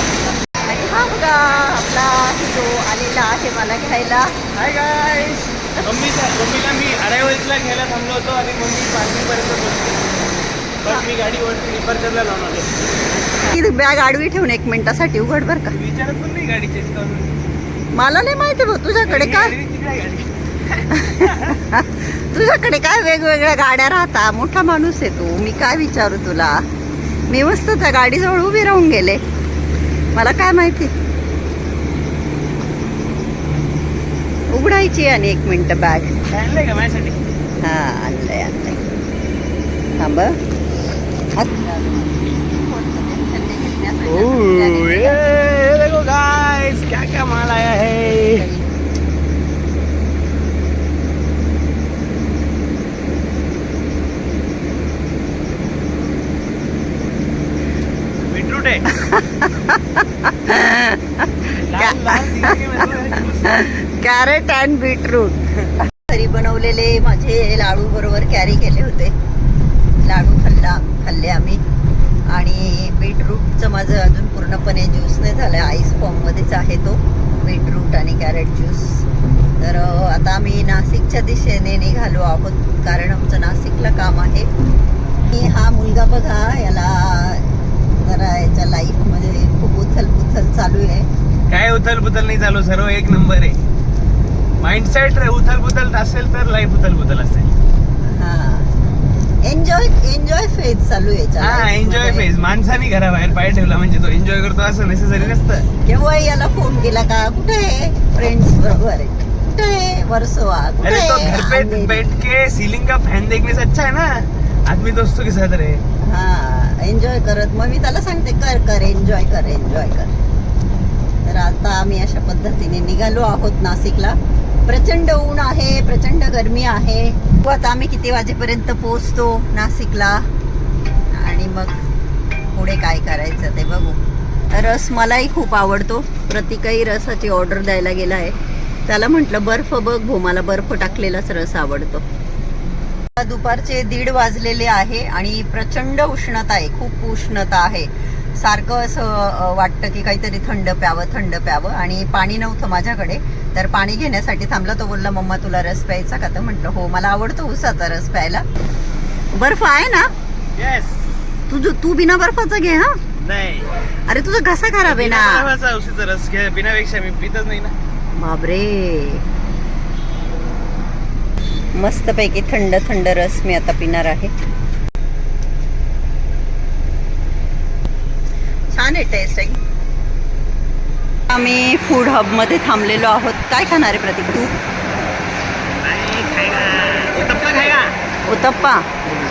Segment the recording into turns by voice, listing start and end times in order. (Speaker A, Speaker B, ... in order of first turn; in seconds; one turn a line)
Speaker A: 0.7-4.3
Speaker B: 4.5-10.1
Speaker B: 10.8-12.7
Speaker A: 13.2-15.7
Speaker B: 15.7-17.3
Speaker A: 17.9-19.5
Speaker B: 19.0-21.6
Speaker A: 20.9-26.6
Speaker A: 27.3-29.2
Speaker A: 30.1-30.9
Speaker B: 33.5-33.8
Speaker A: 34.5-36.2
Speaker B: 36.3-37.2
Speaker A: 37.6-38.8
Speaker A: 40.0-40.4
Speaker A: 41.4-45.2
Speaker B: 44.1-48.5
Speaker A: 48.1-48.7
Speaker B: 58.2-58.9
Speaker A: 58.9-62.6
Speaker B: 61.6-63.7
Speaker A: 63.4-69.1
Speaker A: 70.0-71.6
Speaker A: 72.3-79.1
Speaker A: 79.6-84.5
Speaker A: 85.3-91.1
Speaker B: 91.5-93.6
Speaker B: 94.6-97.5
Speaker A: 98.0-102.3
Speaker B: 101.4-105.7
Speaker A: 105.2-112.0
Speaker B: 110.8-115.8
Speaker A: 116.0-120.1
Speaker A: 121.2-130.3
Speaker A: 131.1-131.7
Speaker A: 132.5-134.0
Speaker A: 134.5-138.3
Speaker A: 138.9-142.0
Speaker A: 143.2-158.4
Speaker A: 159.3-160.1
Speaker B: 160.6-161.1
Speaker A: 161.5-163.0
Speaker B: 163.2-163.7
Speaker A: 164.1-165.5
Speaker B: 164.8-167.7
Speaker A: 168.2-169.2
Speaker A: 171.7-174.3
Speaker A: 178.7-179.6
Speaker A: 181.3-184.6
Speaker B: 185.8-187.9
Speaker A: 188.3-188.9